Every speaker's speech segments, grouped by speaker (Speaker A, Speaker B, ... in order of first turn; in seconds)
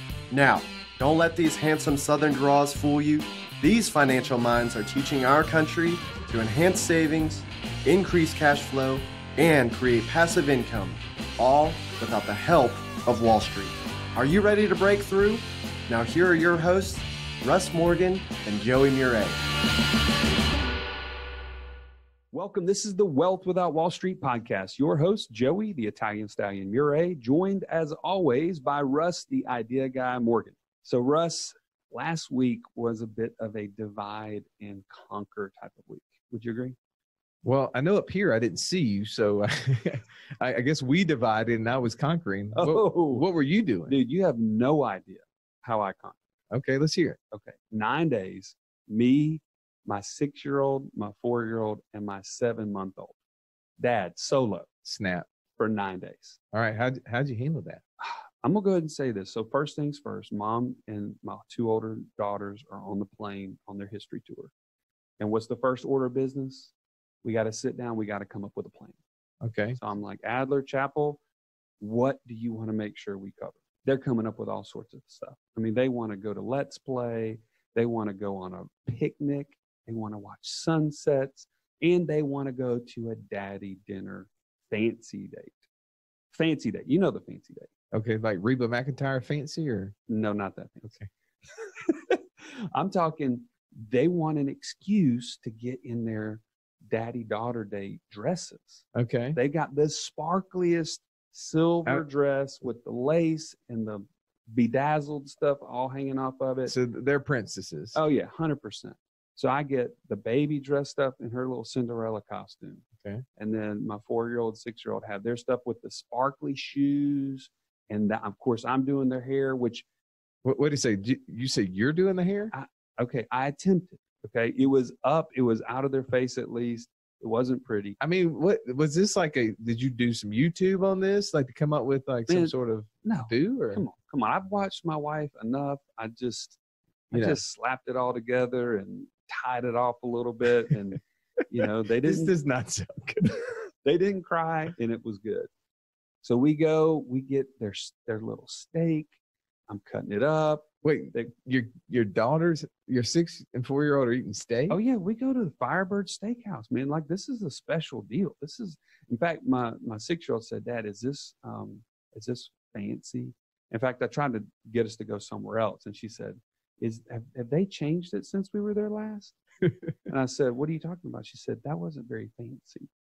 Speaker A: 0.3-19.4
Speaker B: 22.3-36.8, 42.5-43.2, 43.9-46.2, 47.3-53.1, 53.8-54.7, 55.6-56.4, 58.0-64.5, 65.2-66.7, 67.2-69.0, 69.8-71.2, 71.8-85.6, 86.3-87.7, 90.1-90.9, 91.5-98.8, 99.3-106.7, 107.9-112.8, 113.4-119.8, 122.5-128.0, 133.0-136.6, 137.1-141.0, 141.5-142.3, 143.8-145.5, 146.2-149.1, 149.7-151.3, 154.7-169.3, 170.1-172.9
Speaker C: 37.4-43.9, 46.5-47.2, 54.8-55.2, 56.5-57.8, 69.4-69.8, 87.9-89.9, 98.9-99.4, 106.7-108.0, 120.4-122.5, 128.0-133.8, 137.1-137.4, 141.6-143.4, 150.8-154.8